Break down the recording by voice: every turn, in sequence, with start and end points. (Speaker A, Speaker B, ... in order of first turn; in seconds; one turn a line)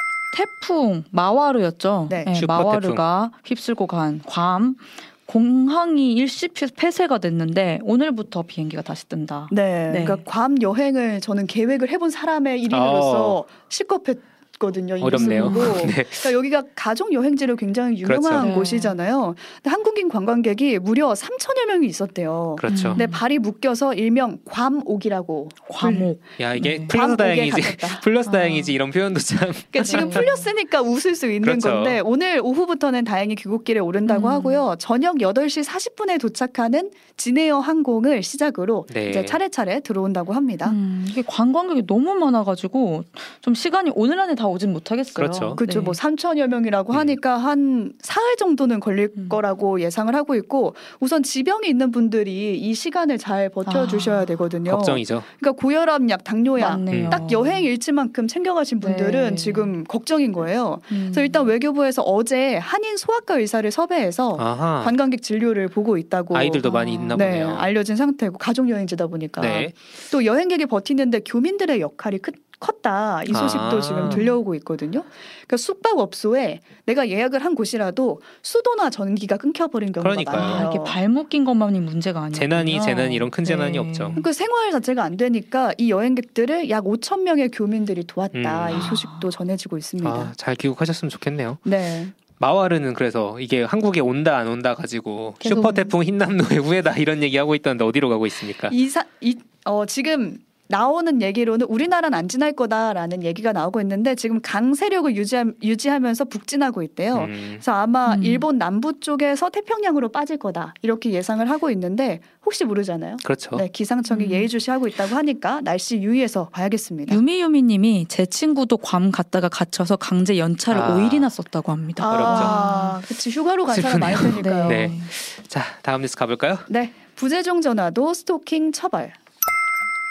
Speaker A: 0.3-10.2
Speaker B: 2.1-2.3
Speaker C: 2.3-3.0
Speaker B: 9.5-26.1
Speaker C: 12.7-13.4
Speaker C: 15.0-16.3
Speaker A: 15.1-15.9
Speaker C: 18.0-18.5
Speaker A: 18.4-18.9
Speaker C: 22.6-23.0
Speaker A: 22.7-23.2
Speaker A: 25.7-26.9
Speaker C: 26.4-30.3
Speaker B: 26.9-28.0
Speaker A: 28.2-28.8
Speaker B: 29.7-40.7
Speaker A: 29.8-30.4
Speaker C: 31.4-32.0
Speaker A: 34.0-34.6
Speaker C: 38.9-39.4
Speaker A: 40.6-46.0
Speaker C: 45.1-45.6
Speaker B: 45.6-81.0
Speaker C: 46.9-47.2
Speaker A: 53.6-54.4
Speaker C: 54.7-55.3
Speaker A: 56.6-57.6
Speaker C: 56.9-57.2
Speaker A: 58.8-59.7
Speaker A: 60.9-61.5
Speaker C: 64.3-65.0
Speaker C: 66.3-67.7
Speaker A: 66.6-67.2
Speaker C: 69.4-69.7
Speaker C: 73.3-74.3
Speaker A: 74.0-74.3
Speaker C: 80.0-80.6
Speaker A: 80.3-84.2
Speaker C: 82.3-84.2
Speaker B: 84.2-90.3
Speaker C: 88.3-88.9
Speaker A: 88.7-89.3
Speaker C: 90.0-91.6
Speaker B: 91.6-92.1
Speaker C: 92.3-98.7
Speaker B: 95.4-95.9
Speaker B: 98.7-117.2
Speaker C: 107.1-107.6
Speaker A: 108.0-108.4
Speaker C: 113.2-113.6
Speaker A: 114.1-114.5
Speaker A: 117.1-123.0
Speaker C: 120.7-121.3
Speaker B: 122.0-124.9
Speaker C: 122.0-122.5
Speaker C: 123.7-126.7
Speaker A: 124.3-125.1
Speaker B: 126.7-129.1